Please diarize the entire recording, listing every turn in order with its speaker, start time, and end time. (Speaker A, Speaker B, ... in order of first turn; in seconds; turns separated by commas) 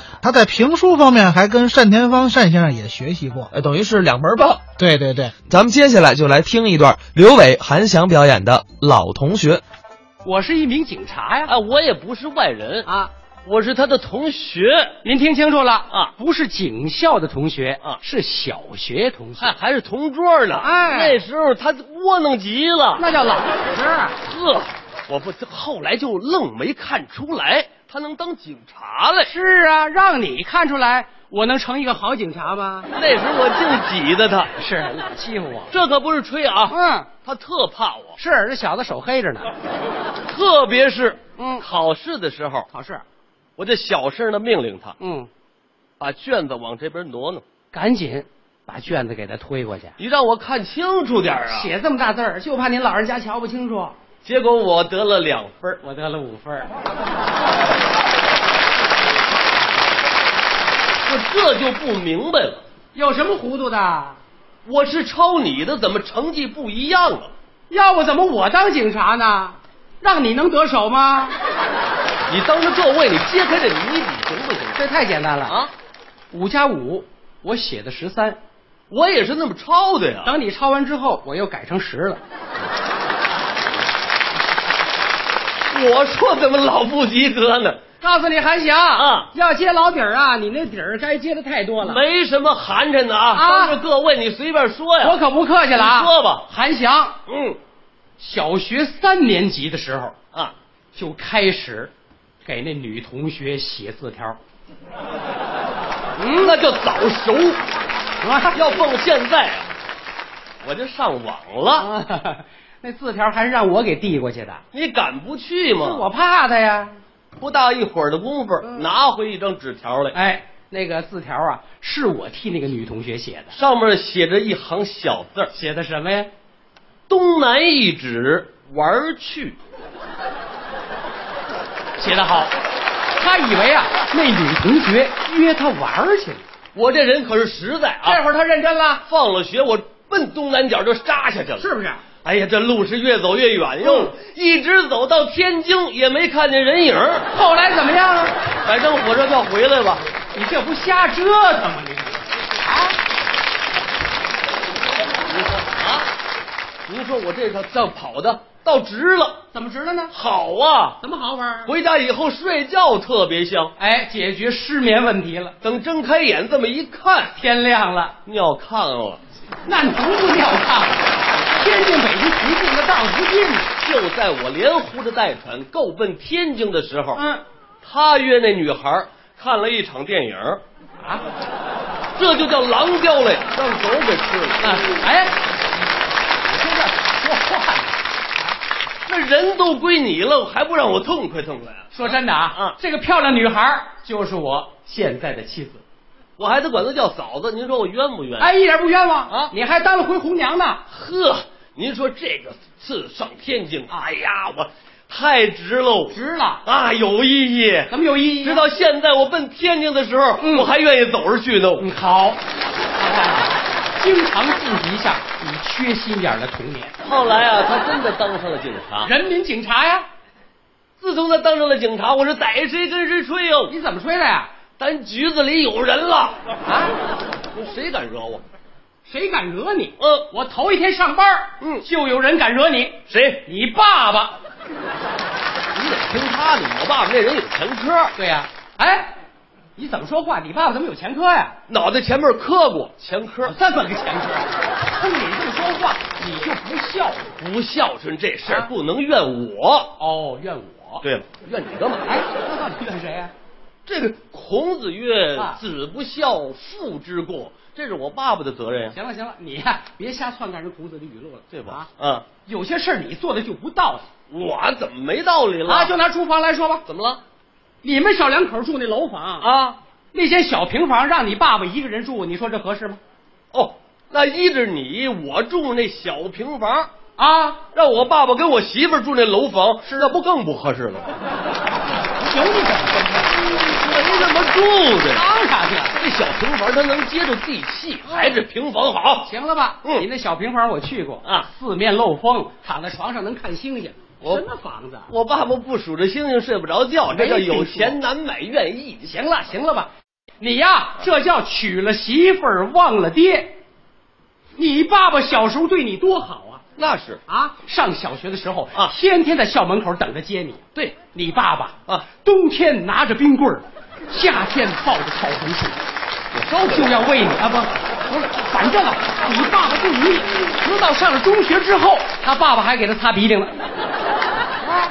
Speaker A: 0.2-3.5, Speaker B: 3.5-4.6, Speaker A: 4.8-5.3, Speaker B: 5.5-9.6, Speaker C: 10.2-11.5, Speaker D: 11.5-12.9, Speaker C: 12.8-13.1, Speaker D: 13.4-14.9, Speaker C: 15.0-19.6, Speaker D: 19.4-23.0, Speaker C: 20.6-21.2, Speaker C: 22.9-24.2, Speaker D: 24.2-29.3, Speaker C: 29.2-32.9, Speaker D: 32.9-34.5, Speaker C: 34.6-35.7, Speaker D: 35.7-36.7, Speaker C: 36.7-37.1, Speaker D: 37.2-38.2, Speaker C: 38.2-39.5, Speaker D: 40.3-42.7, Speaker C: 41.4-41.6, Speaker C: 42.7-43.0, Speaker D: 43.6-45.0, Speaker C: 45.0-45.3, Speaker D: 46.0-47.4, Speaker C: 47.7-49.9, Speaker D: 50.0-51.7, Speaker C: 51.5-54.0, Speaker D: 54.2-55.8, Speaker C: 55.8-56.7, Speaker D: 61.0-62.6, Speaker C: 62.9-64.2, Speaker D: 64.7-67.3, Speaker C: 67.7-71.3, Speaker D: 72.3-74.8, Speaker C: 74.8-75.6, Speaker C: 76.3-78.4, Speaker D: 78.9-80.3, Speaker C: 80.2-82.2, Speaker D: 85.7-87.8, Speaker C: 88.0-92.0, Speaker D: 89.0-89.3, Speaker D: 91.8-95.2, Speaker C: 93.3-93.8, Speaker C: 95.0-97.2, Speaker D: 95.7-96.4, Speaker D: 97.3-97.6, Speaker C: 98.2-100.1, Speaker C: 100.9-101.9, Speaker C: 102.4-104.4, Speaker C: 106.2-106.6, Speaker D: 106.4-107.6, Speaker C: 108.2-108.6, Speaker D: 108.5-109.7, Speaker D: 110.6-111.9, Speaker C: 111.8-114.6, Speaker D: 114.7-116.0, Speaker C: 115.7-117.0, Speaker D: 117.4-120.2, Speaker C: 120.1-123.5, Speaker D: 123.5-125.5, Speaker C: 125.5-126.3, Speaker D: 127.1-129.6, Speaker C: 132.0-132.5, Speaker C: 133.2-136.4, Speaker D: 136.7-138.2, Speaker C: 138.0-139.0, Speaker D: 139.1-141.7, Speaker C: 141.6-142.0, Speaker D: 142.2-147.3, Speaker C: 143.8-144.1, Speaker C: 147.3-148.3, Speaker D: 148.6-150.0, Speaker C: 150.3-152.9, Speaker D: 155.2-156.1, Speaker D: 156.9-159.4, Speaker C: 159.5-160.1, Speaker D: 160.1-161.0, Speaker C: 161.0-161.7, Speaker D: 161.6-163.7, Speaker C: 163.8-165.6, Speaker D: 165.6-167.3, Speaker C: 167.3-168.2, Speaker D: 168.2-169.2, Speaker C: 169.6-173.7, Speaker D: 173.8-177.2, Speaker C: 177.1-177.4, Speaker D: 177.8-180.6, Speaker D: 182.2-184.8, Speaker C: 184.6-185.4, Speaker C: 186.4-188.2, Speaker D: 189.1-192.8, Speaker C: 191.9-195.8, Speaker D: 196.4-198.5, Speaker C: 198.4-200.8, Speaker D: 200.9-211.9, Speaker C: 206.1-206.6, Speaker C: 207.9-208.7, Speaker C: 210.4-210.7, Speaker C: 211.8-212.4, Speaker C: 212.9-216.9, Speaker D: 217.0-219.1, Speaker C: 219.0-220.1, Speaker D: 221.0-223.7, Speaker C: 223.7-224.5, Speaker D: 224.8-226.4, Speaker C: 226.7-226.9, Speaker D: 227.5-228.4, Speaker C: 229.0-234.4, Speaker D: 230.0-230.2, Speaker D: 231.6-231.8, Speaker D: 233.1-233.4, Speaker D: 235.7-238.1, Speaker C: 238.1-239.1, Speaker C: 239.8-241.6, Speaker D: 241.7-243.5, Speaker C: 243.4-247.3, Speaker D: 247.3-249.9, Speaker C: 248.4-248.7, Speaker C: 250.0-251.0, Speaker D: 251.0-252.2, Speaker C: 252.1-253.3, Speaker D: 253.8-258.9, Speaker C: 258.9-261.9, Speaker D: 261.5-262.2, Speaker C: 262.4-264.1, Speaker D: 264.3-265.9, Speaker C: 265.6-266.8, Speaker D: 266.9-267.2, Speaker C: 267.8-269.5, Speaker D: 269.4-269.8, Speaker C: 270.1-273.0, Speaker D: 273.5-276.9, Speaker C: 277.2-277.6, Speaker D: 277.7-281.1, Speaker C: 279.9-280.1, Speaker C: 282.1-283.3, Speaker D: 283.6-285.2, Speaker C: 285.1-285.9, Speaker D: 285.9-289.3, Speaker C: 289.2-295.1, Speaker D: 295.1-299.1, Speaker C: 297.1-297.9, Speaker C: 299.0-303.6, Speaker C: 304.6-306.6, Speaker D: 306.8-307.2, Speaker C: 307.3-315.8, Speaker D: 316.3-317.0, Speaker C: 316.6-323.6